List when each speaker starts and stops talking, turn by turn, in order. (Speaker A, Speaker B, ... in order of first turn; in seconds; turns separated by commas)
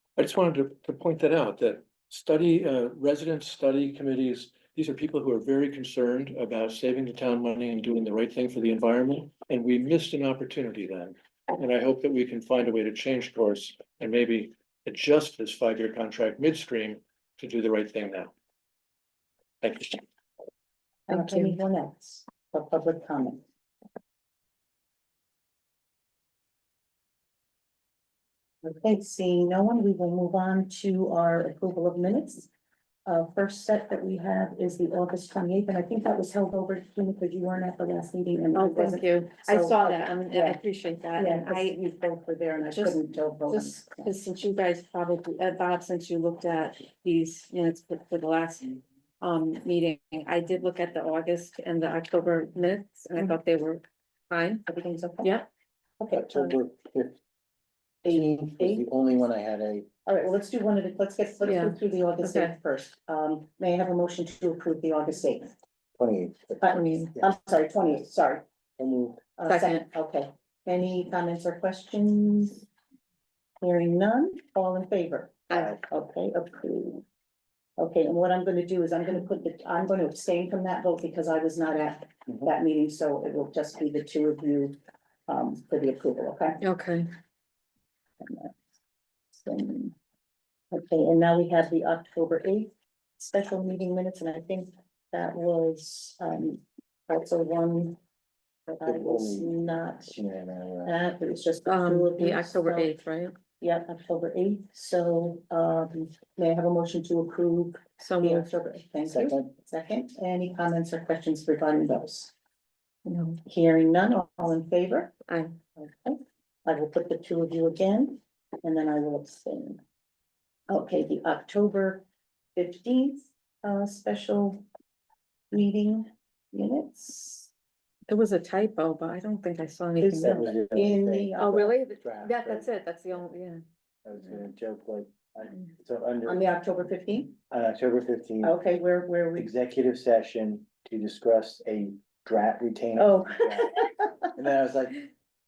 Speaker A: 0.2-18.3, Speaker A: 19.6-20.0, Speaker B: 21.1-23.4, Speaker C: 21.1-21.6, Speaker B: 28.6-32.5, Speaker B: 33.0-40.6, Speaker C: 38.5-41.8, Speaker B: 41.1-44.1, Speaker C: 42.6-54.6, Speaker B: 54.7-55.3, Speaker C: 55.2-55.5, Speaker B: 56.0-56.5, Speaker D: 56.1-57.2, Speaker B: 58.0-58.9, Speaker D: 58.0-59.9, Speaker B: 60.0-65.5, Speaker C: 61.4-62.5, Speaker D: 66.0-67.3, Speaker B: 66.6-68.4, Speaker C: 66.7-67.1, Speaker D: 68.8-69.2, Speaker B: 69.4-72.7, Speaker C: 69.4-69.8, Speaker B: 73.6-77.0, Speaker B: 77.8-86.6, Speaker C: 86.6-87.1, Speaker B: 88.2-88.5, Speaker B: 89.3-89.9, Speaker B: 90.7-98.0, Speaker B: 98.7-100.1, Speaker D: 98.8-100.9, Speaker B: 100.8-102.9, Speaker C: 101.7-103.3, Speaker B: 103.6-112.3, Speaker C: 108.0-108.5, Speaker D: 109.1-109.5, Speaker C: 113.0-113.4, Speaker B: 113.4-115.1, Speaker C: 115.3-115.5, Speaker B: 115.8-119.8, Speaker B: 120.7-124.6, Speaker B: 125.5-127.5, Speaker C: 128.1-130.5, Speaker B: 130.0-131.7, Speaker D: 130.1-132.7, Speaker C: 131.4-133.6, Speaker D: 134.0-136.4, Speaker B: 136.2-137.3, Speaker D: 137.5-138.6, Speaker B: 138.4-139.5, Speaker D: 139.3-143.7, Speaker B: 143.0-144.3, Speaker D: 144.3-145.0